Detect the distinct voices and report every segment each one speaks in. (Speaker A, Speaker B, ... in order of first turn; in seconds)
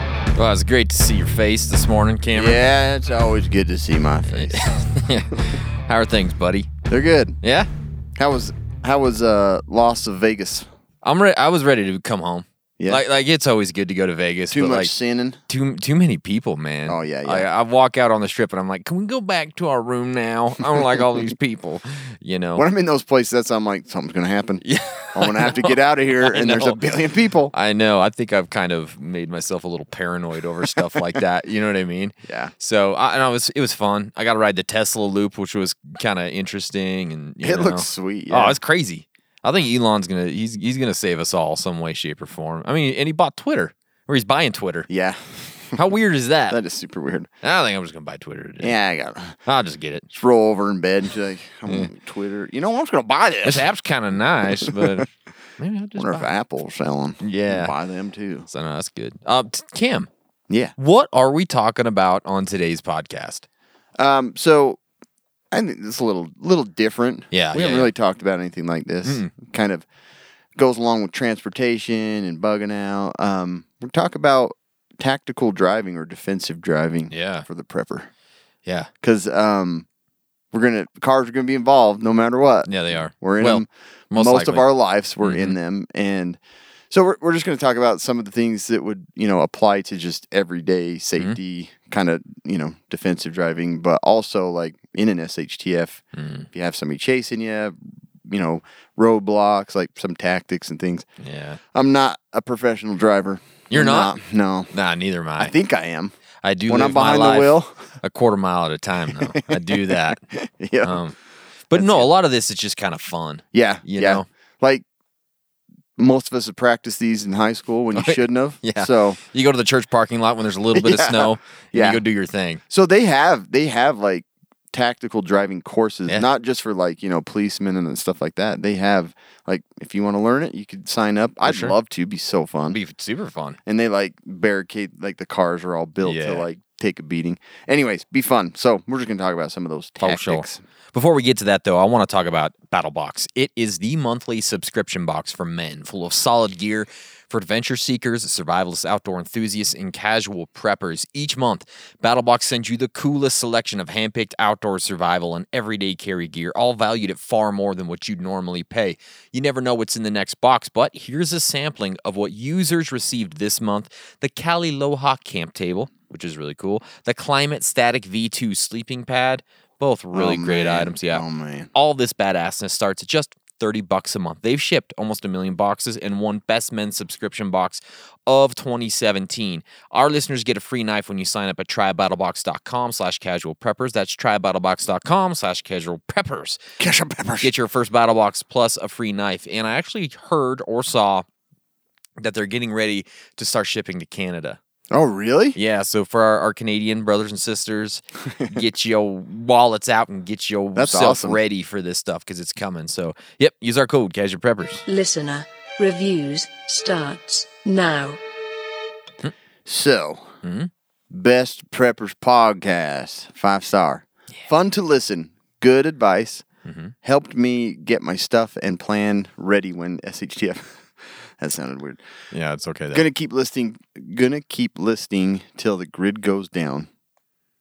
Speaker A: 0.3-2.6, 4.3-6.7, 7.4-7.7, 11.0-14.9, 15.5-22.6, 24.6-26.9, 27.5-44.9, 45.7-46.6, 47.4-48.8, 49.5-50.0, 53.4-55.1, 55.6-56.3, 57.2-57.7, 58.5-60.1, 60.8-63.5, 67.3-67.9, 69.0-69.3, 77.1-77.5, 82.7-84.6, 85.2-85.5, 96.1-96.5, 101.2-101.6, 103.7-104.1, 104.7-105.5, 106.4-110.2, 110.8-111.2, 111.7-114.2, 117.9-122.6, 131.4-131.8, 132.7-133.6, 136.0-136.4, 140.0-186.6, 187.4-191.2, 192.2-194.6, 195.6-204.8, 210.4-210.7, 216.6-216.9, 222.3-223.1
Speaker B: 2.3-4.7, 6.9-7.4, 8.2-10.7, 14.5-15.4, 16.9-17.5, 20.7-21.2, 22.6-24.6, 25.1-27.5, 32.2-32.5, 37.4-38.6, 44.9-45.8, 46.5-47.3, 48.6-49.4, 50.1-53.6, 54.5-55.0, 56.0-58.5, 60.5-60.7, 64.0-64.8, 65.5-69.8, 70.5-78.1, 79.0-79.8, 80.5-86.4, 86.9-101.0, 101.7-104.7, 105.4-106.1, 106.7-107.8, 109.1-111.0, 111.7-112.1, 113.5-114.8, 116.0-119.2, 120.7-122.0, 122.7-132.8, 133.7-140.6, 170.1-171.7, 186.8-187.5, 194.9-195.6, 200.8-201.4, 209.7-210.3, 211.1-216.4, 217.0-222.0, 222.9-226.9
Speaker C: 204.9-208.2